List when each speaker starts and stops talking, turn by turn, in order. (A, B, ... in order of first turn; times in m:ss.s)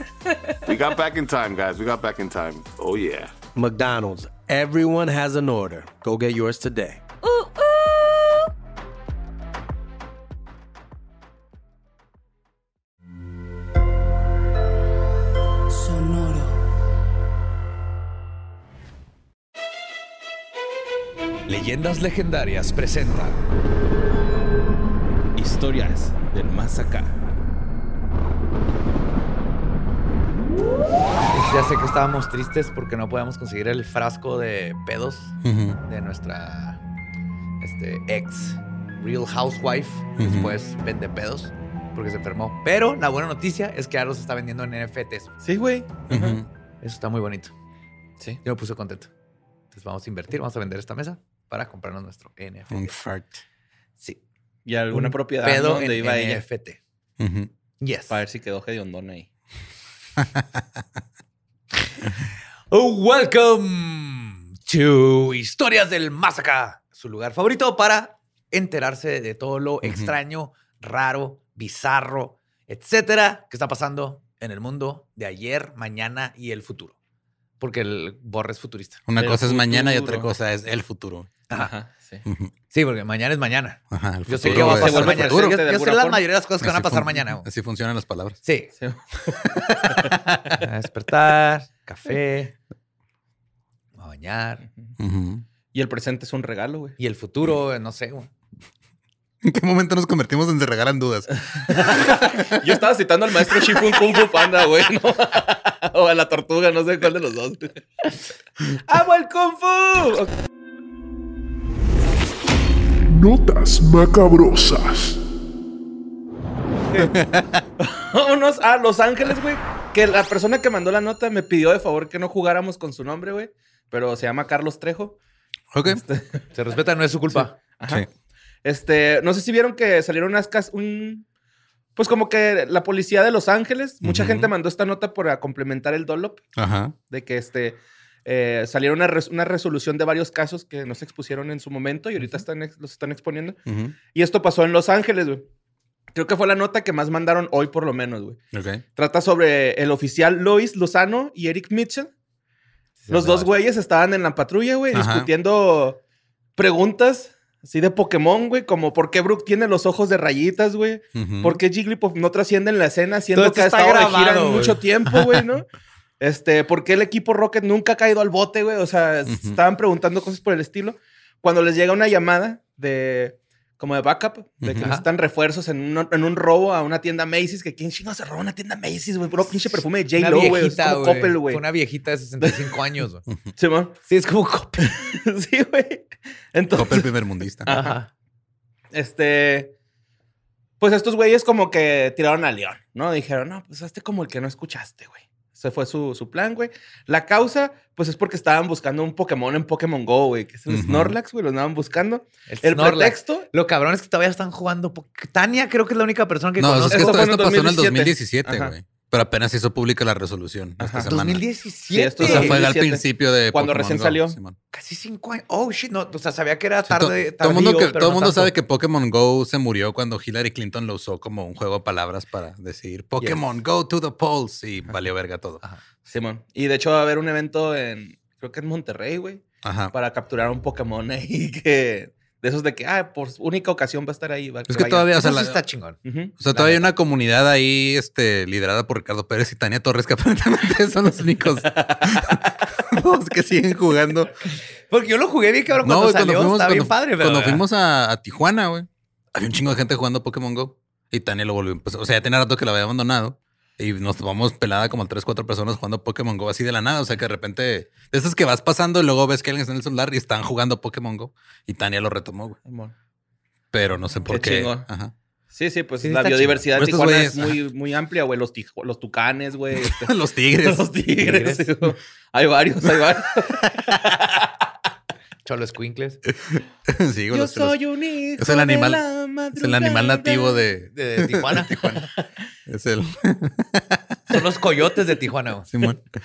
0:00.3-0:01.0 A
0:00.7-0:03.3 B
0:03.5-0:07.0 C
0:07.2-0:08.5 A
0:15.7-0:16.5 A
0:21.5-0:23.4 D
0:25.4-0:27.1 E
0:31.3-0:36.8 D
0:35.4-0:35.8 F
0:37.6-0:45.3 D
0:40.2-0:40.5 F
0:45.4-0:46.4 E
0:46.1-0:46.5 F
0:46.8-0:47.5 D
0:48.4-0:49.1 D
0:49.7-0:52.9 D
0:52.7-0:53.4 F
0:54.6-0:56.4 E
0:54.9-0:56.8 D
0:57.2-0:57.5 F
0:57.8-0:58.2 D
0:58.1-0:59.3 E
1:00.2-1:00.6 F
1:02.7-1:16.9 D
1:09.8-1:10.1 F
1:17.6-1:19.0 D
1:19.1-1:21.3 F
1:19.2-1:20.3 E
1:21.5-1:22.2 E
1:22.7-1:27.4 D
1:23.9-1:25.6 F
1:24.4-1:26.2 E
1:26.6-1:28.4 F
1:28.4-1:28.7 D
1:28.8-1:30.1 E
1:30.6-1:32.5 D
1:34.0-1:34.6 D
1:35.0-1:35.4 F
1:35.7-1:37.0 E
1:37.0-1:38.3 D
1:39.4-1:42.8 F
1:41.6-1:48.1 E
1:43.4-1:43.9 F
1:48.7-1:50.3 E
1:53.1-1:55.2 G
1:57.0-1:57.6 F
1:57.8-2:05.2 E
2:05.7-2:06.0 F
2:05.8-2:06.4 E
2:06.5-2:07.5 D
2:07.3-2:08.1 E
2:08.6-2:11.2 E
2:12.0-2:16.4 E
2:14.0-2:14.5 F
2:16.6-2:16.9 F
2:17.1-2:23.6 E
2:23.7-2:23.9 F
2:24.1-2:25.4 E
2:26.1-2:28.4 E
2:28.5-2:28.8 F
2:29.0-2:32.1 E
2:33.0-2:33.5 D
2:33.1-2:36.0 E
2:34.9-2:35.3 F
2:36.6-2:45.7 E
2:41.1-2:41.6 F
2:43.3-2:44.8 D
2:46.2-3:01.6 E
2:49.3-2:49.6 F
2:54.6-2:54.9 F
2:54.8-2:55.0 D
3:00.2-3:03.2 D
3:03.6-3:03.9 E
3:04.1-3:05.0 D
3:04.8-3:07.1 E
3:06.7-3:07.7 F
3:07.6-3:08.0 E
3:07.7-3:08.1 D
3:08.9-3:09.7 E
3:10.8-3:23.5 E
3:20.7-3:21.2 F
3:22.5-3:27.2 D
3:26.6-3:31.4 F
3:26.9-3:28.7 E
3:30.8-3:31.1 E
3:31.0-3:32.6 D
3:31.9-3:34.4 E
3:32.2-3:34.6 F
3:34.7-3:38.5 D
3:36.8-3:45.6 F
3:46.1-3:55.2 E
3:49.6-3:49.9 F
3:54.7-3:55.6 F
3:55.1-3:56.0 D
3:56.0-3:56.3 E
3:56.4-4:04.3 F
3:56.5-3:56.9 D
4:04.9-4:07.6 D
4:05.8-4:22.6 F
4:22.6-4:22.9 E
4:23.7-4:25.1 F
4:24.3-4:24.9 E
4:25.5-4:34.5 E
4:26.0-4:26.6 D
4:26.7-4:27.6 F
4:29.8-4:30.9 F
4:31.2-4:31.7 D
4:35.4-4:36.2 D
4:36.3-4:37.8 F
4:37.3-4:40.7 E
4:38.4-4:39.0 F
4:39.6-4:42.0 F
4:40.9-4:42.1 D
4:42.7-4:44.2 F
4:44.3-4:45.7 D
4:45.7-4:46.0 F